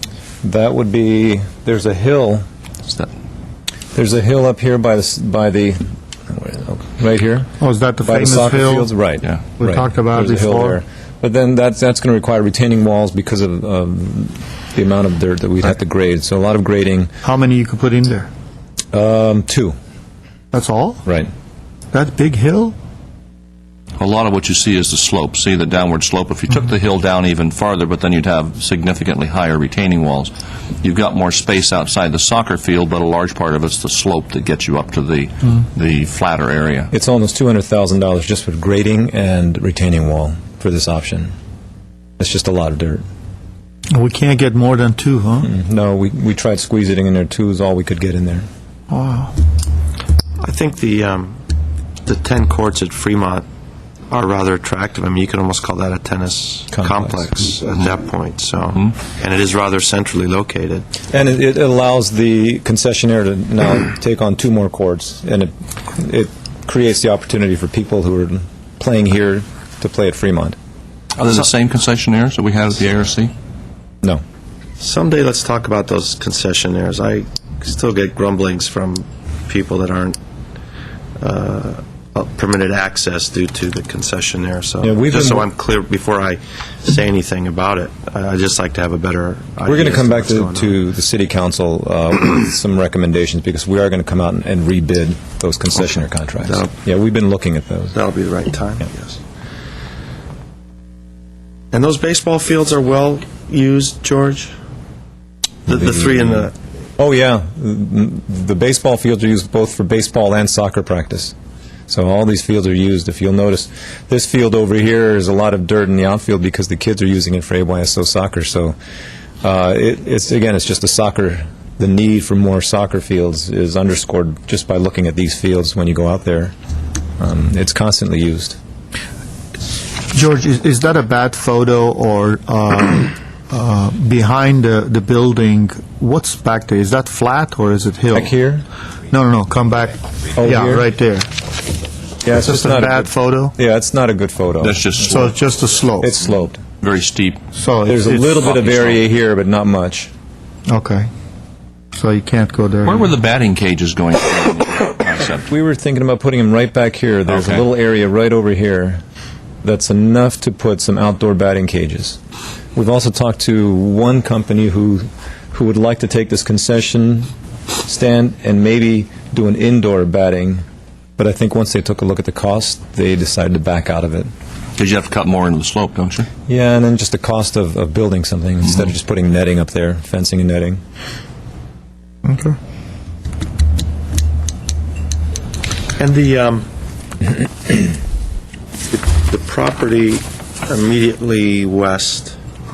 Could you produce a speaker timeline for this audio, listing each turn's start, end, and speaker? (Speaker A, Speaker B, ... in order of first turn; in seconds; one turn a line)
Speaker A: 0.4-2.5
Speaker A: 3.9-7.5
Speaker B: 7.6-8.9
Speaker A: 8.0-17.1
Speaker B: 9.6-10.8
Speaker B: 17.2-18.3
Speaker A: 18.9-19.8
Speaker B: 20.5-21.0
Speaker A: 21.1-21.3
Speaker B: 21.9-22.8
Speaker C: 24.0-36.9
Speaker A: 36.9-41.3
Speaker A: 42.2-43.0
Speaker B: 43.9-45.5
Speaker A: 45.4-48.5
Speaker B: 48.9-49.4
Speaker D: 50.4-51.4
Speaker D: 52.0-53.5
Speaker D: 54.1-61.0
Speaker A: 56.7-57.2
Speaker A: 61.1-70.6
Speaker C: 71.2-73.3
Speaker D: 74.8-80.2
Speaker D: 81.2-90.8
Speaker A: 84.8-85.5
Speaker A: 89.7-98.0
Speaker D: 96.5-96.7
Speaker D: 97.9-99.2
Speaker D: 101.7-104.5
Speaker D: 105.7-106.5
Speaker A: 107.0-111.3
Speaker A: 111.9-118.8
Speaker A: 119.4-126.5
Speaker A: 127.2-128.6
Speaker B: 130.1-138.3
Speaker A: 138.1-138.7
Speaker B: 139.1-141.3
Speaker A: 140.4-140.9
Speaker A: 142.2-144.9
Speaker B: 142.3-143.6
Speaker C: 144.6-145.3
Speaker B: 145.0-146.1
Speaker A: 146.0-146.6
Speaker C: 146.3-147.4
Speaker B: 147.5-148.4
Speaker A: 147.9-150.1
Speaker C: 148.4-149.0
Speaker B: 150.7-151.1
Speaker B: 151.9-153.1
Speaker C: 152.8-155.5
Speaker A: 155.5-159.0
Speaker C: 157.3-157.7
Speaker A: 159.6-162.2
Speaker A: 162.8-167.3
Speaker A: 167.8-170.6
Speaker A: 171.2-174.3
Speaker C: 174.8-176.3
Speaker A: 176.5-180.8
Speaker B: 182.2-182.6
Speaker D: 186.0-186.7
Speaker D: 188.9-192.4